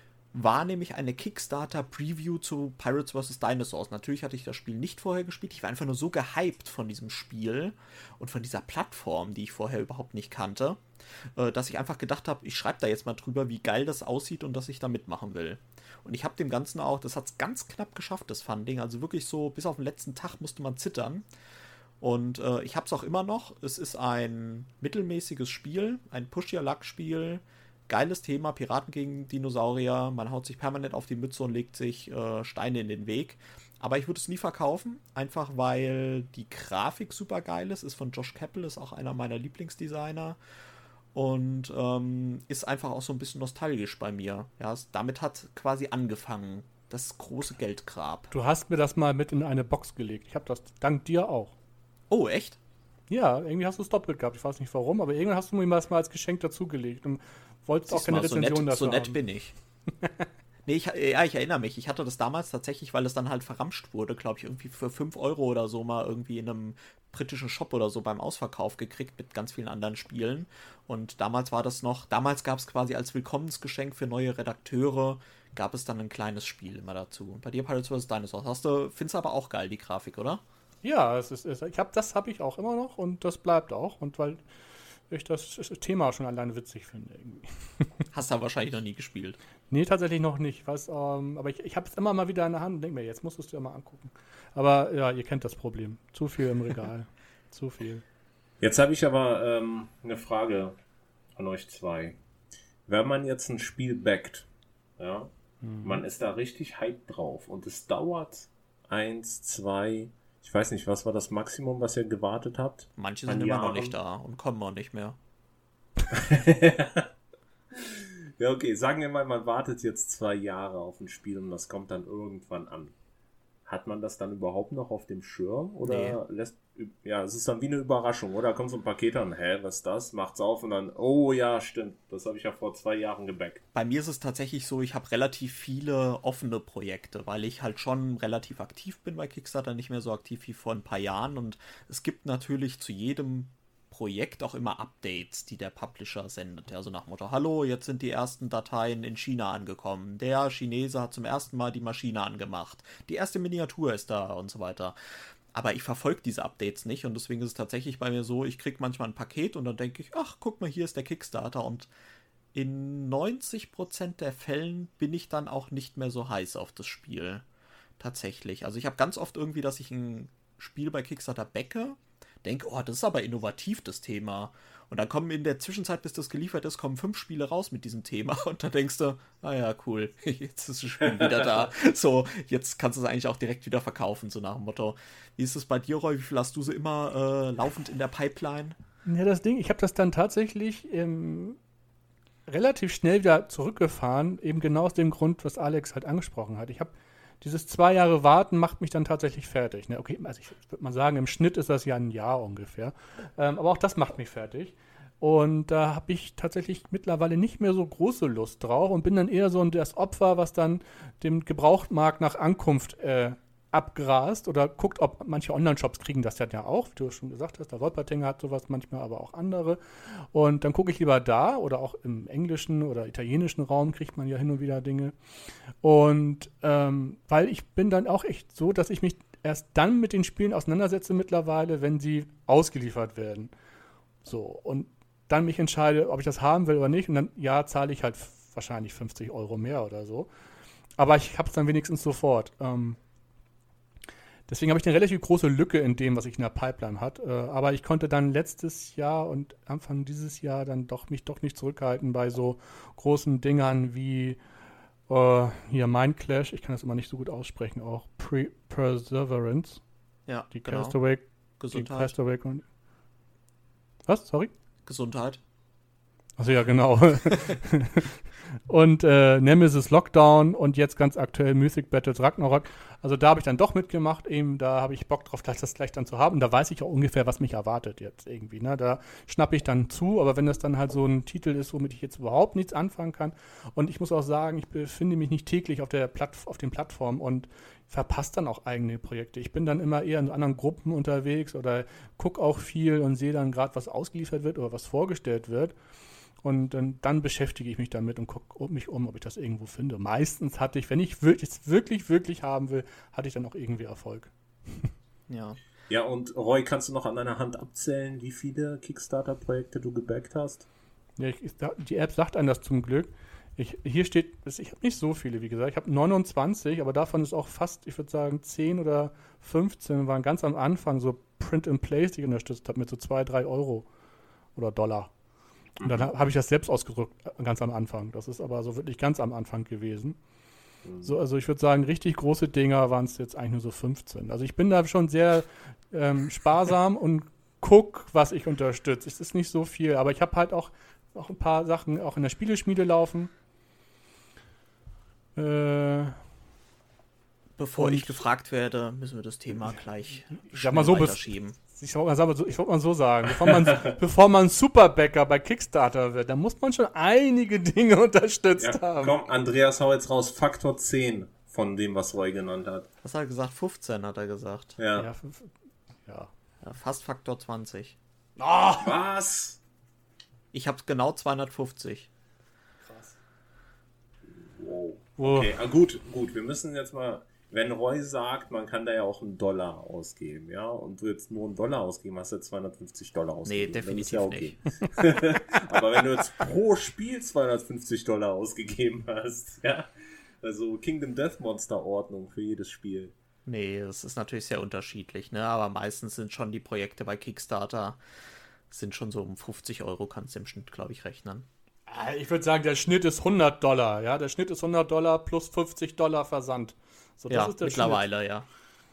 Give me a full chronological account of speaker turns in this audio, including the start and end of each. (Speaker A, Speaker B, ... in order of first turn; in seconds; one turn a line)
Speaker A: 0.3-10.8
Speaker A: 11.4-21.3
Speaker A: 22.0-40.4
Speaker A: 41.1-48.3
Speaker B: 48.3-51.5
Speaker A: 52.1-52.6
Speaker B: 53.1-59.2
Speaker A: 57.9-59.5
Speaker A: 60.7-80.4
Speaker B: 80.8-84.4
Speaker B: 85.1-88.0
Speaker A: 88.1-89.4
Speaker B: 89.7-98.0
Speaker C: 98.6-100.8
Speaker C: 101.4-102.2
Speaker C: 102.9-104.5
Speaker C: 105.0-114.0
Speaker B: 105.6-106.0
Speaker A: 113.0-115.2
Speaker C: 116.1-117.1
Speaker C: 117.7-122.9
Speaker C: 123.7-133.6
Speaker A: 125.8-126.2
Speaker A: 133.7-154.9
Speaker A: 155.5-161.9
Speaker A: 162.5-167.4
Speaker A: 168.0-188.8
Speaker B: 189.1-191.6
Speaker B: 192.5-225.2
Speaker B: 225.8-233.5
Speaker B: 234.2-240.3
Speaker B: 241.0-243.0
Speaker B: 244.5-254.4
Speaker B: 255.1-259.8
Speaker A: 260.3-261.0
Speaker B: 260.5-262.6
Speaker A: 261.6-262.1
Speaker B: 264.1-264.5
Speaker A: 264.9-265.4
Speaker B: 266.4-268.2
Speaker B: 268.7-295.7
Speaker B: 296.4-304.9
Speaker A: 305.3-305.6
Speaker C: 305.9-310.7
Speaker B: 311.2-323.9
Speaker B: 324.6-325.1
Speaker C: 325.8-326.1
Speaker B: 325.8-330.2
Speaker C: 330.9-331.1
Speaker B: 331.0-343.3
Speaker B: 345.4-346.2
Speaker A: 347.6-351.6
Speaker B: 347.8-348.2
Speaker B: 350.3-359.2
Speaker C: 353.5-353.9
Speaker C: 358.6-362.9
Speaker A: 363.0-364.8
Speaker C: 364.8-365.1
Speaker B: 365.0-365.5
Speaker B: 366.1-366.3
Speaker A: 366.6-368.0
Speaker B: 368.4-368.9
Speaker C: 368.8-369.6
Speaker A: 370.5-372.1
Speaker B: 372.8-373.2
Speaker C: 374.4-389.9
Speaker B: 375.2-375.6
Speaker A: 383.4-384.6
Speaker C: 390.4-393.1
Speaker A: 393.5-398.0
Speaker A: 398.7-401.5
Speaker B: 401.9-408.1
Speaker A: 407.3-408.5